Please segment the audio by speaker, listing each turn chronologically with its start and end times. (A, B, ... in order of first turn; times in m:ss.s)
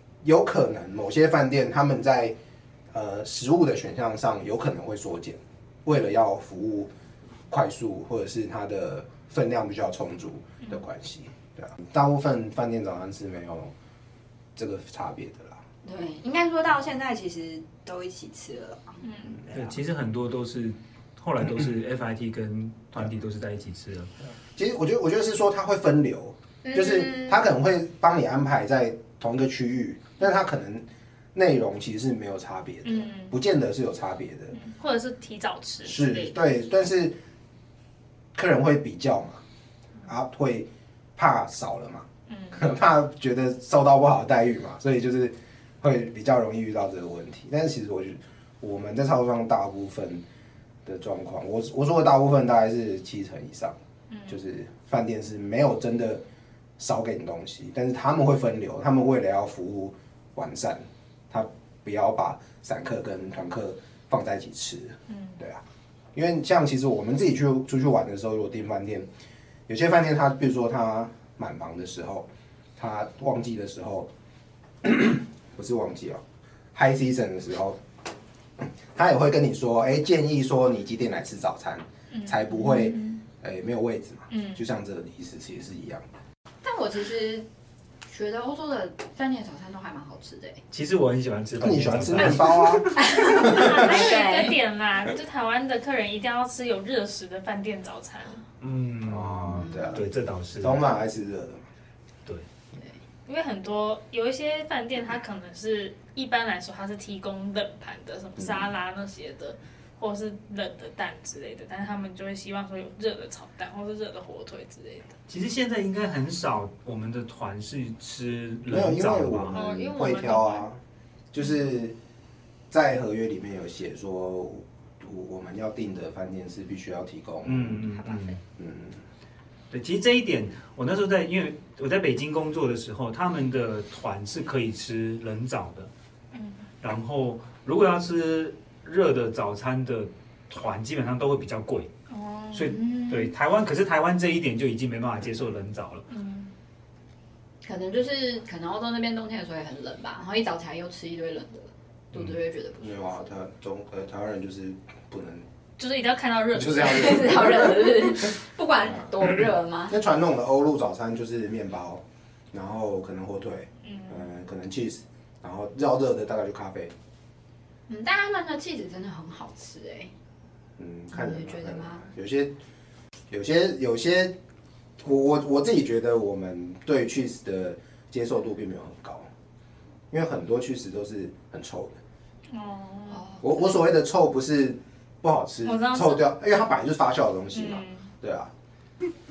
0:00.2-0:02.4 A
0:02.9-0:06.9 A
0:07.5-0:13.7 A
0:14.6-0:15.6 A
0:15.8-0:19.6 B
0:19.0-0:19.4 C
0:19.5-0:24.1 D
0:24.6-0:34.6 A
0:26.6-0:27.4 B
0:32.8-0:33.4 C
0:34.5-0:36.4 C
0:35.8-0:37.2 A
0:38.3-0:39.4 A
0:40.0-0:50.2 A
0:42.3-0:42.7 C
0:50.8-0:56.2 A
0:54.1-0:54.4 C
0:56.8-1:05.6 A
1:06.1-1:09.1 A
1:09.7-1:14.1 A
1:14.8-1:16.2 A
1:16.7-1:17.8 A
1:18.6-1:26.0 A
1:22.1-1:23.2 C
1:24.3-1:24.6 C
1:26.6-1:27.5 B
1:28.1-1:30.6 B
1:30.7-1:33.0 D
1:31.6-1:33.8 A
1:32.9-1:34.6 B
1:33.3-1:38.4 C
1:38.6-1:40.8 D
1:39.0-1:40.1 A
1:39.5-1:40.0 B
1:40.6-1:41.6 A
1:43.3-1:55.2 C
1:48.4-1:48.7 A
1:55.3-1:59.5 D
1:58.7-2:00.8 A
1:59.5-2:00.6 C
2:01.3-2:02.0 A
2:02.7-2:08.0 A
2:07.4-2:08.4 D
2:08.6-2:09.0 A
2:09.7-2:15.9 D
2:16.3-2:16.7 C
2:16.8-2:21.9 D
2:22.1-2:23.3 C
2:22.5-2:26.0 D
2:26.1-2:26.5 C
2:27.6-2:33.2 B
2:32.8-2:35.5 A
2:35.8-2:37.4 C
2:36.5-2:38.2 A
2:36.8-2:40.0 B
2:38.9-2:39.3 A
2:39.9-2:46.9 A
2:43.8-2:44.3 C
2:47.9-2:50.1 B
2:50.8-2:52.5 A
2:51.1-2:52.0 B
2:53.3-2:54.4 A
2:55.0-2:59.3 A
3:00.1-3:02.0 A
3:02.5-3:03.3 C
3:03.1-3:03.4 B
3:03.4-3:08.5 A
3:05.6-3:06.3 C
3:07.5-3:08.1 C